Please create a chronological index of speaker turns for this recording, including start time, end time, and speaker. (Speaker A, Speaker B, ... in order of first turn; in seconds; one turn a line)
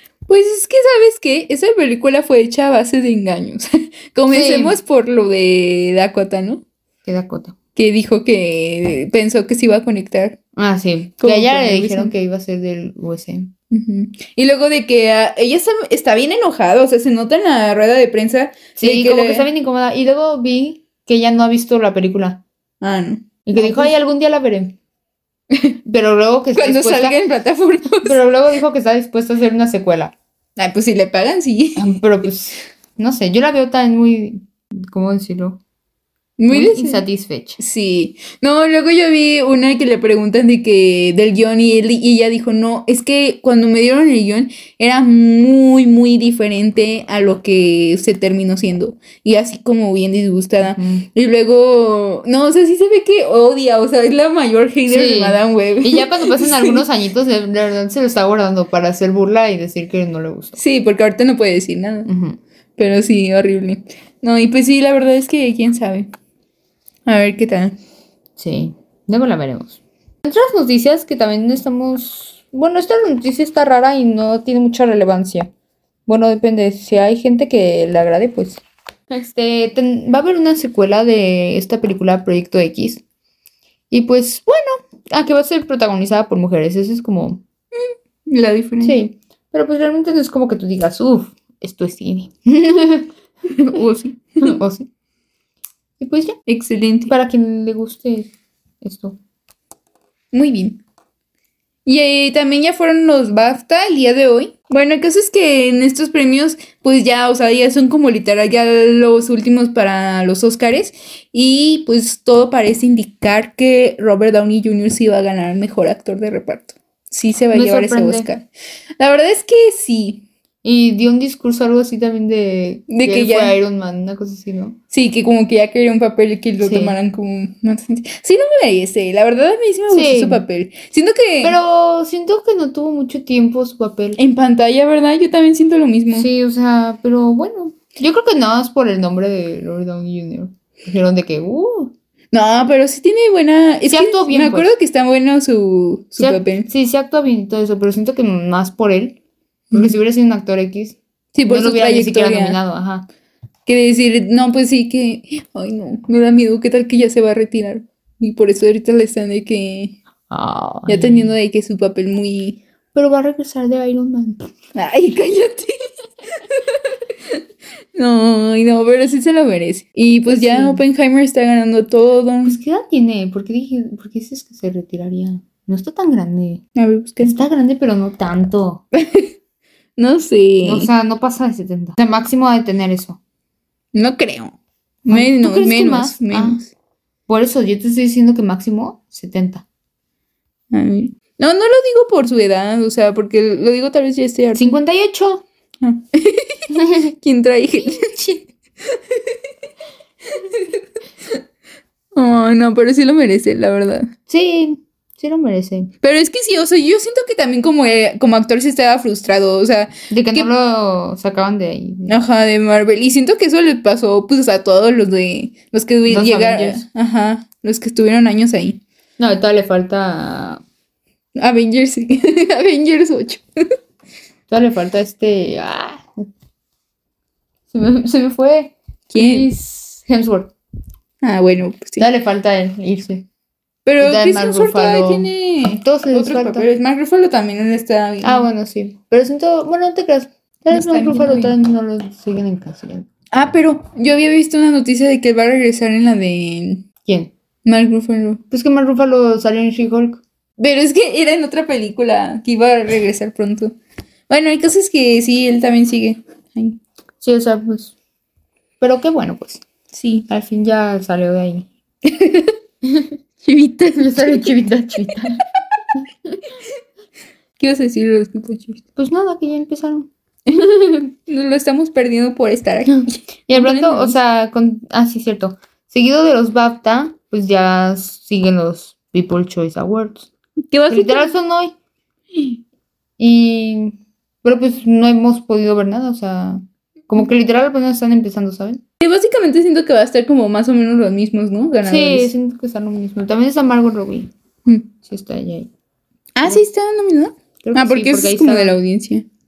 Speaker A: 0.3-6.6
Speaker B: 4.3-4.8
Speaker B: 7.0-7.6
Speaker A: 7.8-10.4
Speaker B: 10.6-13.5
Speaker A: 11.2-12.1
Speaker A: 13.7-19.5
Speaker B: 18.8-22.4
Speaker A: 22.8-23.9
Speaker B: 23.5-24.8
Speaker B: 25.9-27.2
Speaker A: 26.6-28.2
Speaker B: 28.0-30.1
Speaker A: 30.6-32.0
Speaker B: 31.8-35.6
Speaker A: 36.4-37.0
Speaker B: 36.5-37.6
Speaker A: 37.6-56.8
Speaker B: 50.7-51.1
Speaker B: 54.9-60.6
Speaker A: 60.6-62.1
Speaker B: 62.1-62.4
Speaker A: 62.8-66.1
Speaker A: 67.1-67.8
Speaker B: 68.4-75.5
Speaker B: 76.1-83.0
Speaker B: 83.9-87.4
Speaker A: 88.3-89.0
Speaker B: 88.8-93.1
Speaker B: 93.7-94.9
Speaker B: 96.0-96.4
Speaker A: 96.5-97.1
Speaker B: 97.1-99.2
Speaker A: 100.3-100.8
Speaker A: 101.9-118.5
Speaker B: 117.5-118.3
Speaker A: 119.0-120.2
Speaker B: 120.6-124.8
Speaker A: 122.9-123.6
Speaker A: 124.9-131.6
Speaker B: 126.6-127.0
Speaker B: 129.9-130.4
Speaker B: 131.4-134.2
Speaker A: 134.2-136.3
Speaker B: 136.1-141.9
Speaker A: 142.3-146.7
Speaker B: 143.9-144.7
Speaker B: 146.2-149.2
Speaker B: 149.7-153.1
Speaker A: 151.3-152.6
Speaker A: 153.7-160.0
Speaker B: 160.3-161.3
Speaker A: 160.9-162.6
Speaker B: 162.9-164.6
Speaker A: 164.7-165.8
Speaker A: 166.4-166.9
Speaker A: 167.9-172.6
Speaker B: 170.3-170.8
Speaker B: 172.4-176.6
Speaker A: 176.8-177.4
Speaker B: 177.2-178.8
Speaker A: 179.0-179.3
Speaker A: 180.0-180.9
Speaker B: 180.6-183.2
Speaker A: 183.9-186.7
Speaker B: 185.1-186.6
Speaker B: 187.3-189.7
Speaker A: 190.7-194.8
Speaker B: 194.6-195.4
Speaker A: 195.8-198.4
Speaker B: 196.8-197.1
Speaker B: 197.8-198.3
Speaker A: 199.0-199.3
Speaker A: 200.3-200.8
Speaker A: 202.2-204.1
Speaker B: 204.3-205.9
Speaker A: 206.0-210.5
Speaker B: 210.1-212.2
Speaker A: 212.1-218.8
Speaker B: 216.1-216.8
Speaker B: 219.2-220.6
Speaker A: 221.4-223.4
Speaker B: 224.5-226.3
Speaker B: 227.7-230.5
Speaker A: 229.1-229.5
Speaker A: 231.2-232.1
Speaker B: 232.0-233.3
Speaker A: 233.9-238.5
Speaker B: 234.0-236.7
Speaker B: 238.2-243.1
Speaker A: 240.7-241.6
Speaker A: 243.3-246.9
Speaker B: 247.1-247.3
Speaker A: 247.7-248.4
Speaker B: 248.5-250.2
Speaker A: 250.6-253.8
Speaker A: 254.3-256.8
Speaker B: 257.2-257.9
Speaker B: 258.8-259.6
Speaker A: 259.9-260.3
Speaker B: 260.3-261.7
Speaker A: 262.1-262.5
Speaker B: 262.8-263.1
Speaker A: 263.4-264.5
Speaker B: 264.0-265.4
Speaker B: 266.0-266.3
Speaker A: 267.6-268.8
Speaker B: 269.0-270.1
Speaker A: 270.6-274.2
Speaker B: 273.5-280.3
Speaker A: 280.7-281.3
Speaker B: 280.9-281.8
Speaker B: 283.2-288.8
Speaker A: 289.0-292.3
Speaker B: 291.8-294.3
Speaker B: 295.0-295.7
Speaker A: 296.4-299.3
Speaker B: 297.6-298.8